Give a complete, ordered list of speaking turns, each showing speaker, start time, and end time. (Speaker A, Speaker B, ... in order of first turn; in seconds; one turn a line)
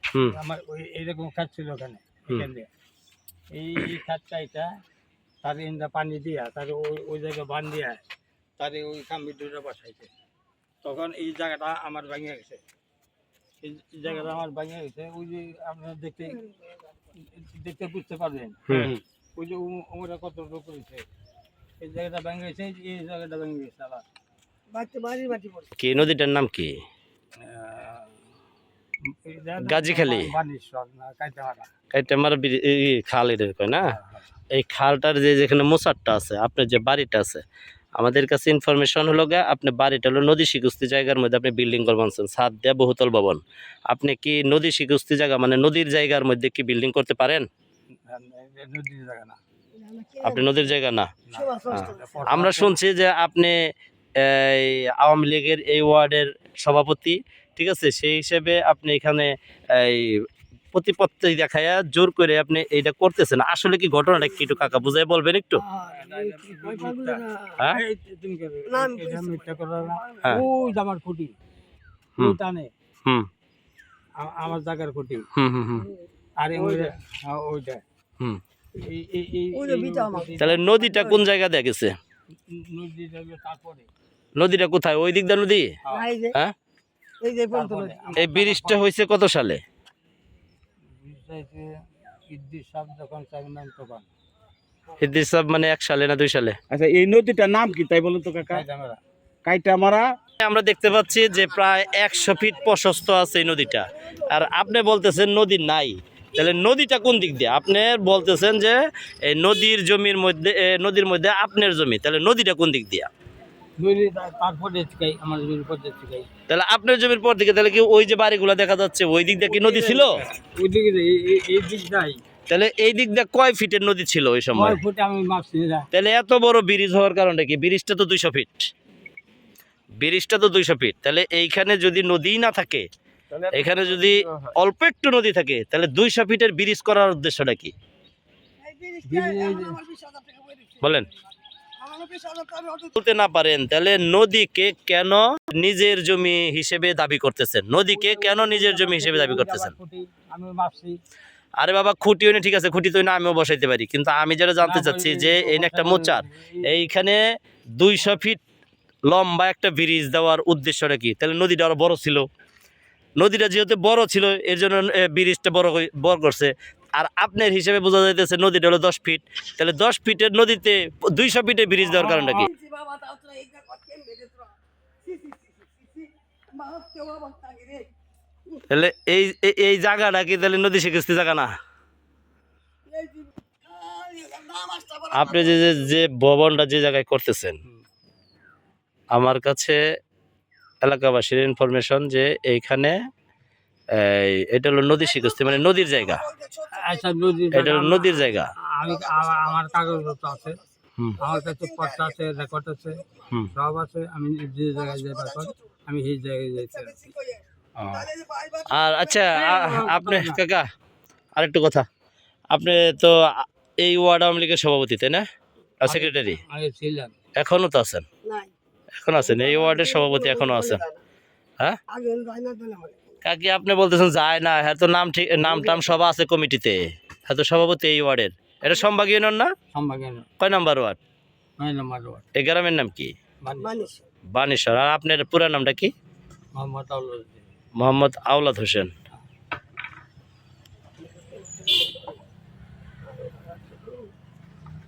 Speaker A: 0.3-2.7
Speaker A: 3.5-4.7
Speaker A: 5.4-8.0
Speaker A: 8.6-10.1
Speaker A: 10.8-12.6
Speaker A: 13.6-16.4
Speaker A: 17.2-21.1
Speaker B: 18.7-18.9
Speaker A: 21.8-24.0
Speaker C: 24.7-25.7
Speaker B: 25.8-26.8
Speaker A: 27.4-28.1
Speaker A: 29.1-31.7
Speaker B: 29.6-30.3
Speaker B: 31.9-33.9
Speaker A: 33.9-34.3
Speaker B: 34.5-37.4
Speaker B: 38.0-47.5
Speaker A: 48.1-49.4
Speaker C: 49.8-50.7
Speaker B: 50.2-51.1
Speaker A: 51.3-52.8
Speaker C: 51.3-52.2
Speaker B: 51.7-53.6
Speaker B: 54.2-60.2
Speaker B: 60.7-65.6
Speaker C: 65.5-67.7
Speaker A: 65.8-71.3
Speaker C: 68.7-70.4
Speaker A: 72.2-72.7
Speaker A: 74.2-75.3
Speaker B: 75.3-75.9
Speaker A: 76.4-77.8
Speaker A: 78.8-81.2
Speaker C: 79.5-80.5
Speaker B: 80.4-81.9
Speaker A: 82.5-83.9
Speaker B: 84.4-85.7
Speaker C: 85.9-86.3
Speaker C: 87.2-88.2
Speaker A: 87.5-88.8
Speaker B: 88.2-89.6
Speaker A: 91.0-91.7
Speaker A: 92.3-94.1
Speaker B: 95.0-96.6
Speaker D: 96.7-98.7
Speaker A: 98.5-99.0
Speaker D: 99.5-100.1
Speaker B: 100.4-113.1
Speaker C: 103.9-104.6
Speaker A: 113.8-116.3
Speaker B: 116.5-120.2
Speaker A: 119.5-122.2
Speaker B: 122.5-124.8
Speaker A: 124.5-125.9
Speaker B: 125.9-128.7
Speaker B: 130.0-132.9
Speaker D: 133.3-134.5
Speaker B: 133.5-137.7
Speaker C: 138.6-141.1
Speaker A: 139.1-139.8
Speaker B: 140.8-141.1
Speaker C: 141.7-142.9
Speaker B: 142.9-149.7
Speaker A: 147.8-151.0
Speaker B: 151.6-157.2
Speaker A: 154.6-156.9
Speaker B: 157.8-158.4
Speaker B: 159.1-162.2
Speaker B: 163.2-172.5
Speaker C: 171.9-177.9
Speaker B: 178.7-181.5
Speaker C: 182.9-186.0
Speaker B: 185.1-187.6
Speaker B: 189.1-189.8
Speaker B: 190.8-193.0
Speaker B: 193.9-196.3
Speaker C: 195.2-197.3
Speaker A: 196.7-200.6
Speaker B: 197.5-198.5
Speaker C: 198.9-200.6
Speaker A: 201.2-207.1
Speaker C: 201.2-202.4
Speaker C: 203.0-203.3
Speaker C: 204.8-205.6
Speaker C: 206.6-209.2
Speaker B: 207.8-208.1
Speaker B: 208.7-210.7
Speaker A: 209.3-210.4
Speaker B: 211.4-211.9
Speaker B: 212.5-215.2
Speaker B: 215.8-216.4
Speaker A: 215.9-217.1
Speaker B: 217.4-218.1
Speaker C: 218.2-218.5
Speaker B: 219.0-220.8
Speaker C: 219.2-221.0
Speaker C: 221.9-223.1
Speaker B: 223.2-229.5
Speaker C: 225.5-225.9
Speaker A: 229.7-230.3
Speaker B: 230.4-231.0
Speaker A: 231.6-232.2
Speaker B: 232.3-233.1
Speaker A: 233.4-233.9
Speaker C: 233.6-234.1
Speaker B: 234.3-235.9
Speaker A: 236.5-237.4
Speaker B: 237.8-238.9
Speaker C: 241.1-242.1
Speaker C: 243.1-244.1